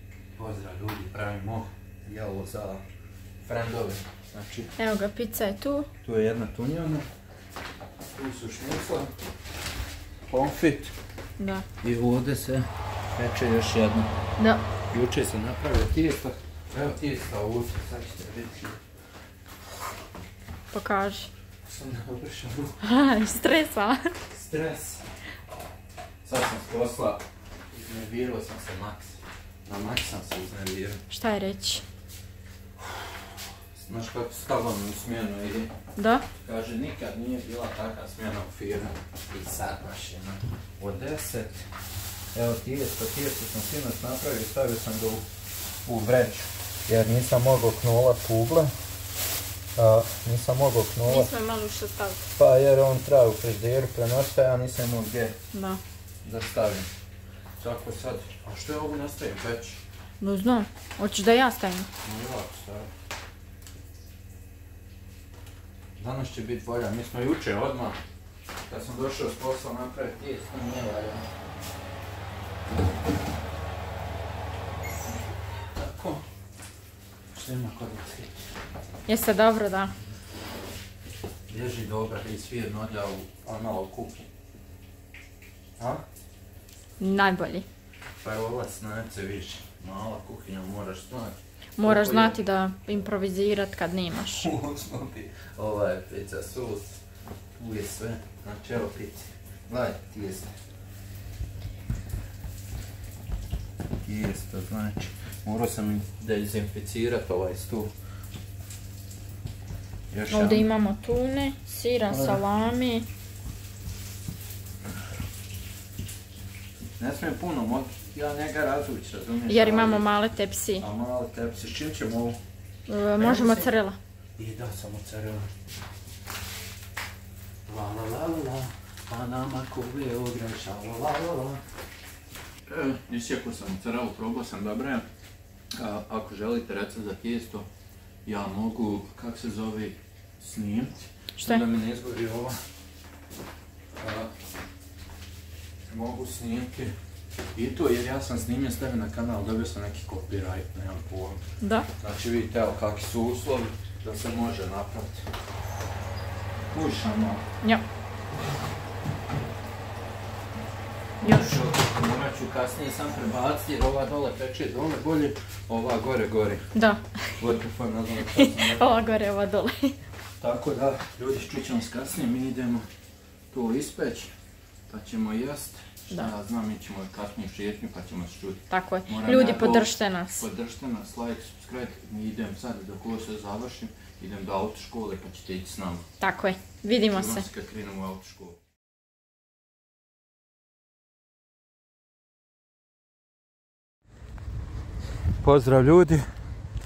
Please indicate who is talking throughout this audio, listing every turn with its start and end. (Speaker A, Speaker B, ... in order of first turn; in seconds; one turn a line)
Speaker A: 0.3-2.8
Speaker A: 3.4-4.7
Speaker B: 4.8-5.9
Speaker A: 6.0-7.0
Speaker A: 8.1-9.1
Speaker A: 10.3-10.9
Speaker B: 11.4-11.7
Speaker A: 11.8-14.1
Speaker B: 14.4-14.7
Speaker A: 14.9-18.8
Speaker B: 20.7-21.3
Speaker A: 21.6-22.7
Speaker B: 22.8-24.1
Speaker A: 24.3-25.0
Speaker A: 26.2-31.0
Speaker B: 31.1-31.8
Speaker A: 33.7-35.7
Speaker B: 36.0-36.3
Speaker A: 36.4-41.6
Speaker A: 42.3-45.2
Speaker A: 45.8-48.7
Speaker A: 49.8-51.3
Speaker B: 51.1-52.3
Speaker A: 52.4-55.3
Speaker B: 55.5-55.8
Speaker A: 56.2-56.9
Speaker A: 57.6-59.8
Speaker B: 60.2-61.9
Speaker A: 62.0-62.9
Speaker A: 66.0-68.0
Speaker A: 68.7-71.2
Speaker A: 75.7-76.2
Speaker A: 77.3-78.4
Speaker B: 79.1-79.9
Speaker A: 81.5-84.3
Speaker A: 85.8-86.0
Speaker B: 87.0-87.7
Speaker A: 88.2-92.4
Speaker B: 91.8-94.5
Speaker A: 94.3-96.9
Speaker A: 97.6-100.5
Speaker A: 104.0-107.9
Speaker A: 110.1-110.7
Speaker B: 110.3-113.1
Speaker A: 112.1-112.4
Speaker A: 117.0-120.0
Speaker B: 119.5-120.8
Speaker A: 120.8-122.4
Speaker B: 122.9-124.0
Speaker A: 123.2-123.7
Speaker A: 124.4-125.5
Speaker A: 127.7-131.6
Speaker A: 132.7-135.1
Speaker A: 135.7-137.7
Speaker A: 138.2-142.6
Speaker B: 141.4-141.6
Speaker A: 144.0-144.3
Speaker A: 145.9-146.9
Speaker A: 147.5-151.4
Speaker B: 151.6-151.9
Speaker A: 152.0-155.2
Speaker A: 156.7-157.4
Speaker A: 161.2-166.6
Speaker B: 161.2-161.6
Speaker B: 166.7-167.0
Speaker A: 167.4-168.9
Speaker B: 168.3-169.9
Speaker A: 170.4-172.9
Speaker A: 173.5-174.3
Speaker A: 174.9-186.1
Speaker B: 178.7-180.5
Speaker B: 186.2-187.5
Speaker A: 187.1-188.6
Speaker A: 195.4-196.2